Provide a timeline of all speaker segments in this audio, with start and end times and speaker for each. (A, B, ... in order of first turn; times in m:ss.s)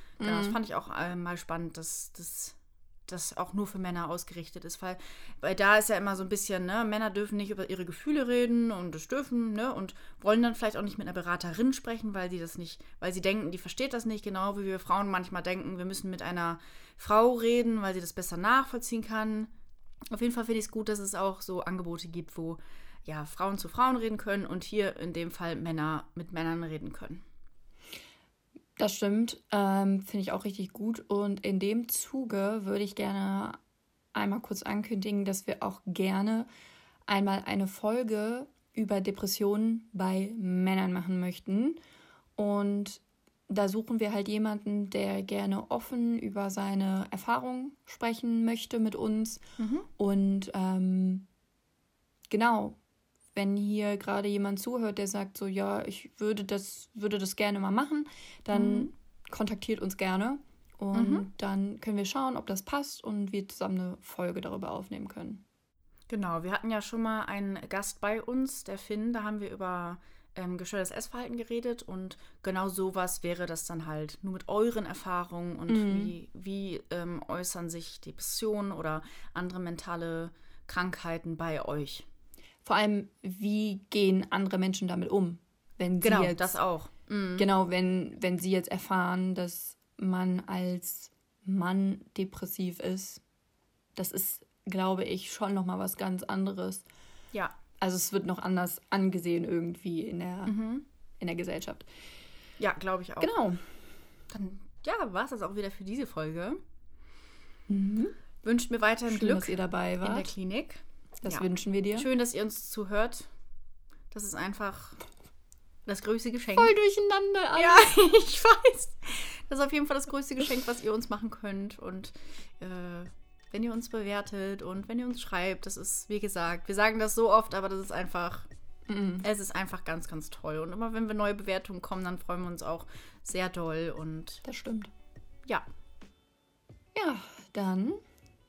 0:00.2-0:00.6 A
0:00.2-0:19.5 B
0:20.1-0:27.2 B
0:28.8-0:33.6 A
0:34.2-0:36.5 A
0:37.1-0:41.8 A
0:42.4-0:49.4 A
0:49.6-0:49.9 B
0:50.0-0:51.3 A
0:52.3-0:52.8 A
0:53.4-1:05.4 A
0:58.5-0:58.9 B
1:00.9-1:01.3 B
1:06.1-1:22.1 B
1:15.7-1:16.1 A
1:22.6-1:26.5 A
1:26.0-1:27.5 B
1:27.4-1:33.2 A
1:34.0-1:36.8 A
1:37.8-1:40.6 A
1:40.5-1:40.9 B
1:41.2-1:41.9 A
1:42.6-1:43.3 B
1:43.2-1:43.7 A
1:44.3-1:46.6 B
1:47.7-1:48.2 A
1:48.4-1:53.3 B
1:49.1-1:50.3 A
1:51.2-1:52.1 A
1:54.1-1:55.0 B
1:55.9-1:56.7 B
1:56.5-1:57.9 A
1:57.6-2:08.5 B
2:08.9-2:09.3 A
2:09.2-2:14.4 B
2:14.4-2:14.9 A
2:17.0-2:18.0 A